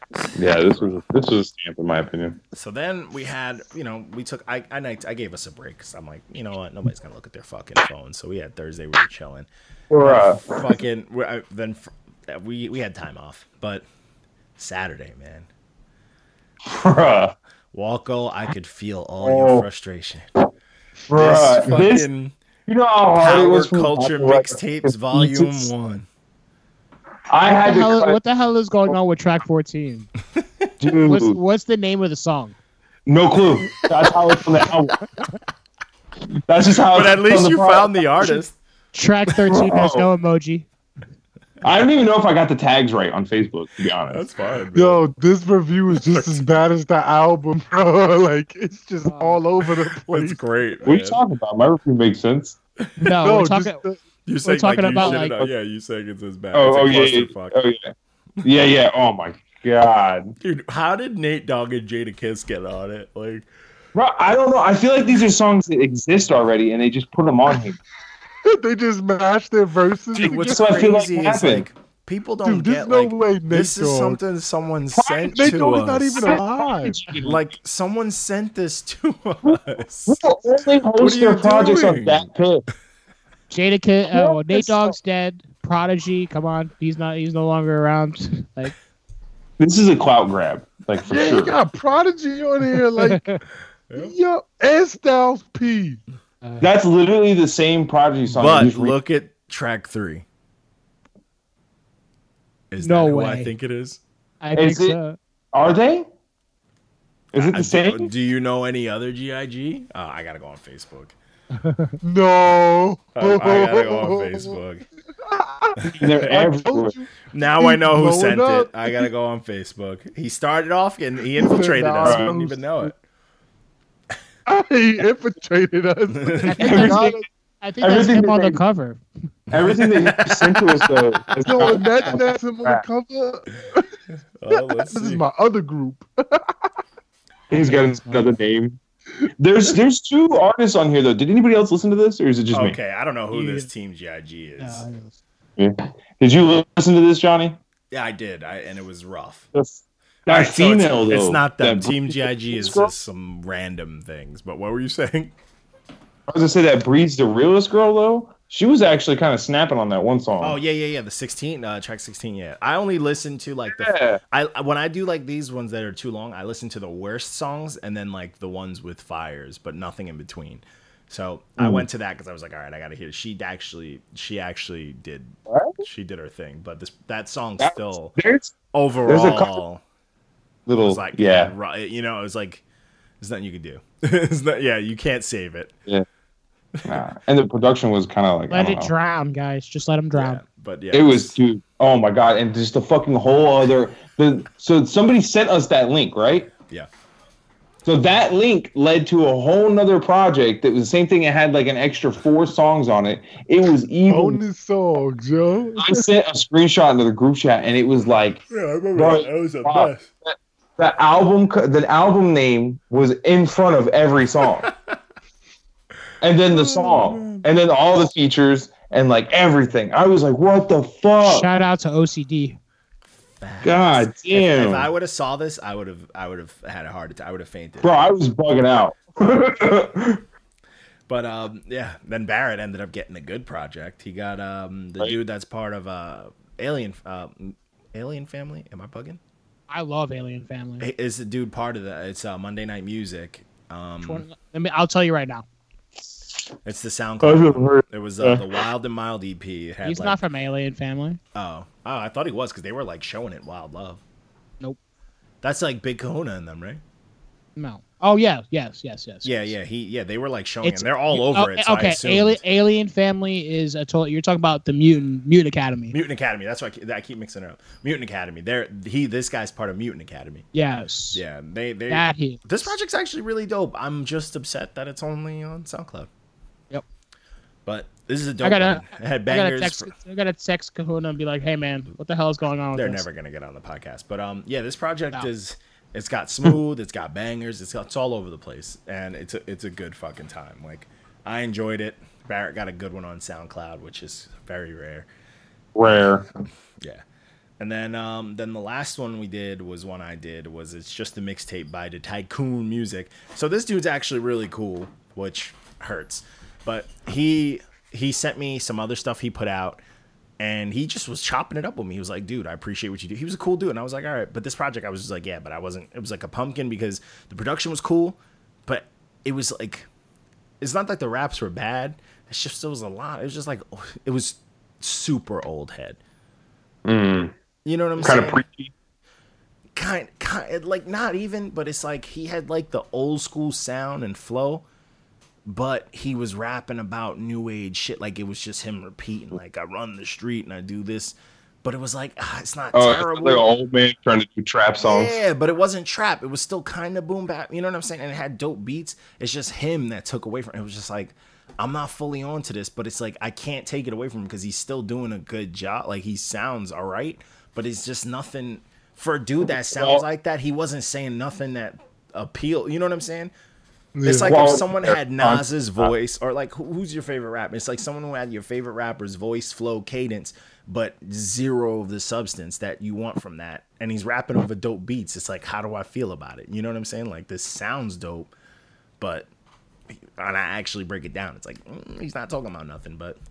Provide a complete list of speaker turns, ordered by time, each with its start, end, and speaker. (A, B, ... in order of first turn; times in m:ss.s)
0:00.2-0:01.0 A
0:00.3-0:02.4 B
0:02.5-0:09.5 A
0:09.9-0:10.8 B
0:10.0-0:13.8 A
0:14.6-0:15.5 A
0:16.6-0:17.3 B
0:17.7-0:20.2 A
0:19.2-0:19.7 B
0:21.1-0:22.1 B
0:21.1-0:22.3 A
0:22.7-0:25.7 B
0:23.2-0:26.0 A
0:27.3-0:28.2 B
0:27.4-0:30.1 C
0:30.8-0:31.4 B
0:31.0-0:32.5 C
0:33.0-0:35.0 B
0:36.5-0:38.4 B
0:36.9-0:38.5 A
0:38.9-0:40.7 C
0:39.5-0:40.1 B
0:41.6-0:44.2 B
0:44.1-0:45.0 A
0:44.7-0:50.4 D
0:46.0-0:46.4 A
0:49.0-0:49.4 C
0:49.9-0:51.2 A
0:50.8-0:52.6 B
0:52.8-0:53.1 A
0:53.0-0:53.8 C
0:53.2-0:54.0 D
0:54.2-0:57.6 A
0:54.4-0:55.4 C
0:55.0-0:55.5 B
0:56.5-1:00.4 B
1:00.4-1:03.5 A
1:03.9-1:07.8 B
1:08.4-1:10.8 D
1:10.1-1:16.4 A
1:10.1-1:11.7 B
1:12.4-1:14.2 D
1:14.9-1:15.6 B
1:15.3-1:17.0 D
1:16.1-1:17.4 B
1:17.2-1:20.2 A
1:19.4-1:22.6 B
1:21.0-1:22.3 A
1:23.5-1:28.7 C
1:24.1-1:24.9 B
1:29.6-1:31.5 B
1:31.0-1:33.2 D
1:33.0-1:33.4 C
1:33.9-1:36.0 D
1:36.4-1:36.7 C
1:36.6-1:39.0 B
1:38.3-1:40.2 A
1:42.7-1:44.0 A
1:42.8-1:43.5 C
1:44.4-1:45.2 C
1:44.5-1:45.0 B
1:45.5-1:46.1 B
1:47.3-1:48.1 B
1:47.3-1:51.1 A
1:51.5-1:52.0 C
1:52.0-1:54.6 D
1:53.1-1:54.8 A
1:55.2-1:59.1 D
1:55.8-1:56.9 B
1:57.3-2:03.0 A
2:01.3-2:02.9 D
2:02.0-2:02.3 B
2:04.4-2:07.2 D
2:06.1-2:06.9 A
2:06.4-2:09.0 C
2:06.6-2:07.0 B
2:07.8-2:08.6 B
2:09.5-2:12.8 B
2:09.5-2:10.9 A
2:11.4-2:13.8 D
2:14.4-2:15.2 A
2:14.5-2:16.5 D
2:17.5-2:18.8 B
2:17.6-2:18.3 C
2:19.4-2:22.8 B
2:22.5-2:24.8 A
2:23.3-2:23.7 C
2:24.6-2:25.1 C
2:25.6-2:27.6 B
2:27.9-2:29.5 A
2:29.5-2:32.9 B
2:30.2-2:35.3 A
2:36.3-2:40.6 B
2:40.4-2:58.2 A
2:43.7-2:44.2 B
2:51.6-2:51.8 B
2:55.5-2:55.8 B
2:57.6-2:58.5 B
2:58.7-2:59.8 A
2:59.0-2:59.6 B
3:00.6-3:01.5 B
3:00.8-3:02.6 A
3:03.2-3:05.7 A
3:06.8-3:07.0 A
3:06.8-3:08.9 B
3:08.5-3:10.4 C
3:10.1-3:11.4 A
3:10.9-3:16.5 B
3:17.8-3:24.4 B
3:24.1-3:26.0 D
3:25.8-3:28.4 B
3:28.5-3:30.0 A
3:28.9-3:34.7 B
3:36.2-3:41.5 B
3:36.5-3:37.4 A
3:41.2-3:42.6 C
3:43.4-3:48.1 A
3:43.6-3:44.9 B
3:47.8-3:50.2 B
3:51.1-3:59.2 A
3:59.7-4:00.8 C
4:00.8-4:04.2 A
4:04.0-4:05.4 C
4:06.6-4:10.2 A
4:07.2-4:08.5 B
4:09.8-4:11.2 C
4:11.3-4:14.0 A
4:15.4-4:16.8 A
4:17.6-4:19.5 C
4:19.2-4:22.4 A
4:20.6-4:25.9 C
4:25.9-4:30.4 A
4:30.5-4:31.2 C
4:31.1-4:36.1 A
4:31.9-4:32.7 C
4:37.6-4:39.9 A
4:38.4-4:43.0 C
4:42.7-4:55.1 A
4:55.7-4:56.2 B
4:57.6-5:09.8 A
5:10.4-5:19.9 A
5:20.6-5:26.0 A
5:26.8-5:27.3 B
5:27.6-5:28.4 A
5:28.0-5:28.7 B
5:29.8-5:34.6 A
5:35.5-5:43.4 A
5:42.7-5:45.2 B
5:44.8-6:03.3 A
5:59.7-6:00.0 B
6:03.9-6:04.3 D
6:04.0-6:18.3 A
6:04.2-6:05.9 B
6:19.0-6:19.3 A
6:20.2-6:23.2 A